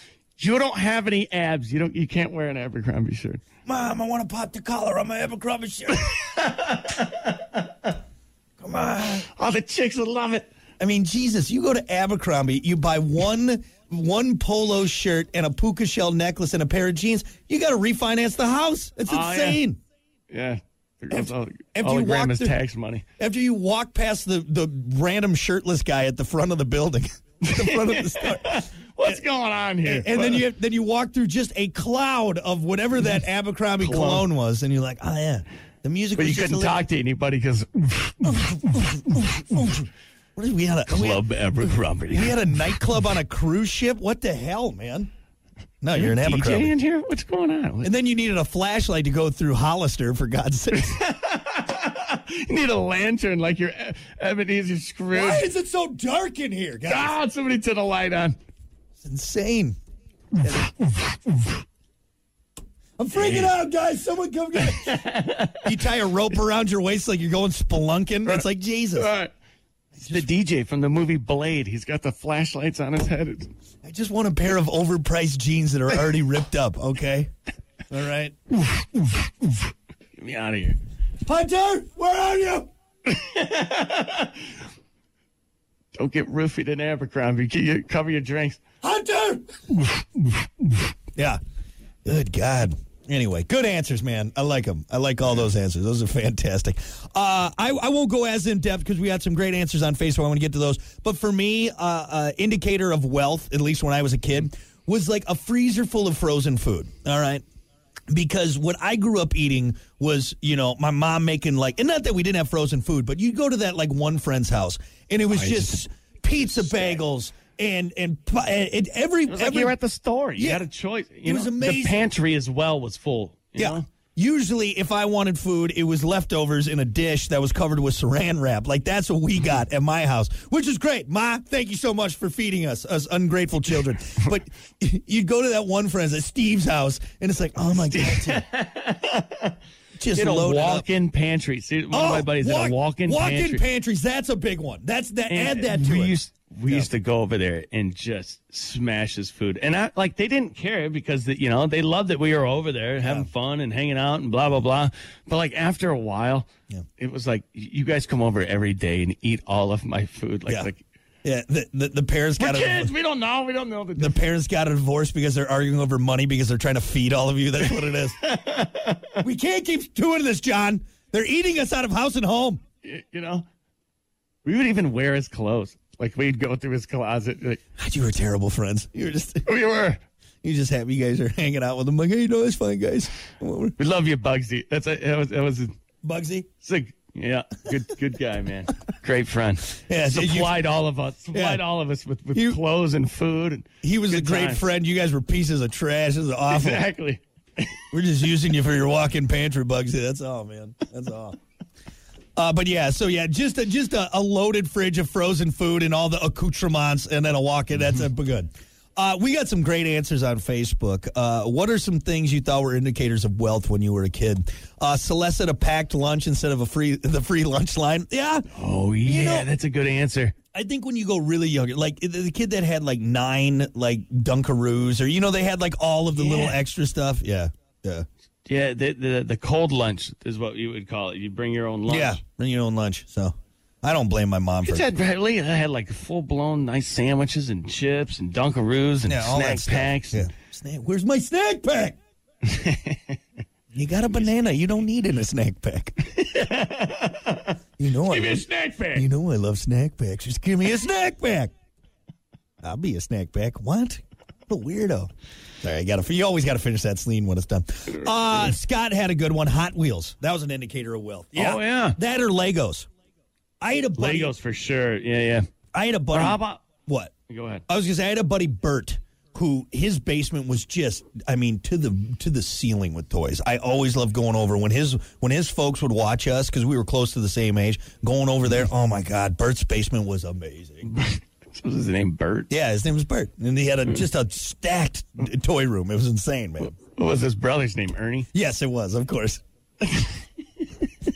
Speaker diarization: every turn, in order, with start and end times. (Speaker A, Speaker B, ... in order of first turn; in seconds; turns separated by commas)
Speaker A: 0.4-3.4, Speaker B: 3.7-6.1, Speaker A: 5.9-7.9, Speaker B: 8.6-9.3, Speaker A: 9.0-10.5, Speaker B: 10.8-19.8, Speaker A: 19.1-19.6, Speaker A: 20.3-23.1, Speaker B: 21.1-22.6, Speaker B: 23.2-29.2, Speaker A: 27.5-30.5, Speaker B: 29.8-36.9, Speaker A: 33.8-34.3, Speaker A: 36.2-38.9, Speaker B: 38.3-41.2, Speaker A: 40.9-42.9, Speaker B: 42.1-45.1, Speaker B: 45.8-46.7, Speaker A: 46.0-47.9, Speaker B: 47.8-51.0, Speaker A: 50.8-55.5, Speaker B: 55.1-57.2, Speaker A: 56.9-58.4, Speaker B: 59.0-59.8, Speaker B: 60.4-60.7, Speaker B: 63.0-65.0, Speaker A: 63.1-63.5, Speaker A: 64.6-65.8, Speaker B: 65.6-69.1, Speaker A: 69.0-69.3, Speaker A: 70.0-73.5, Speaker B: 73.8-77.3, Speaker B: 77.9-78.4, Speaker A: 80.2-80.8, Speaker B: 81.2-82.7, Speaker A: 83.1-84.5, Speaker A: 86.0-88.6, Speaker B: 88.8-89.6, Speaker B: 92.0-107.4, Speaker B: 108.1-119.8, Speaker A: 115.3-115.8, Speaker A: 116.4-117.0, Speaker A: 119.3-123.8, Speaker B: 120.4-120.6, Speaker B: 121.2-122.1, Speaker B: 123.6-138.4, Speaker A: 137.8-139.6, Speaker B: 140.0-140.8, Speaker A: 140.2-143.6, Speaker B: 141.9-146.2, Speaker A: 145.3-160.8, Speaker B: 153.0-153.3, Speaker B: 161.2-162.9, Speaker A: 162.4-164.2, Speaker B: 164.0-168.2, Speaker A: 167.7-169.1, Speaker B: 169.2-172.6, Speaker A: 172.8-173.4, Speaker A: 174.4-177.6, Speaker B: 177.8-179.5, Speaker A: 179.4-180.0, Speaker B: 180.4-183.8, Speaker A: 183.8-185.7, Speaker B: 186.0-186.5, Speaker A: 186.6-194.7, Speaker B: 189.8-190.6, Speaker B: 191.3-191.6, Speaker B: 192.3-192.6, Speaker B: 193.8-196.9, Speaker A: 196.5-198.0, Speaker B: 197.9-201.4, Speaker B: 202.4-218.5, Speaker A: 218.5-220.3, Speaker B: 219.1-219.5, Speaker B: 220.5-228.1, Speaker A: 226.2-226.6, Speaker A: 228.5-232.2, Speaker B: 231.9-234.9, Speaker A: 234.6-240.3, Speaker B: 239.1-242.0, Speaker A: 242.5-243.2, Speaker B: 243.7-245.9, Speaker A: 246.1-249.1, Speaker B: 247.8-251.5, Speaker B: 252.6-255.1, Speaker B: 255.6-262.9, Speaker A: 258.0-258.6, Speaker A: 261.4-262.0, Speaker B: 263.6-264.3, Speaker A: 264.0-265.4, Speaker B: 265.7-267.1, Speaker A: 266.1-266.6, Speaker A: 267.3-267.6, Speaker B: 267.7-280.9, Speaker A: 280.9-282.5, Speaker B: 282.5-286.8, Speaker A: 286.6-288.3, Speaker B: 288.3-289.4, Speaker A: 289.8-290.7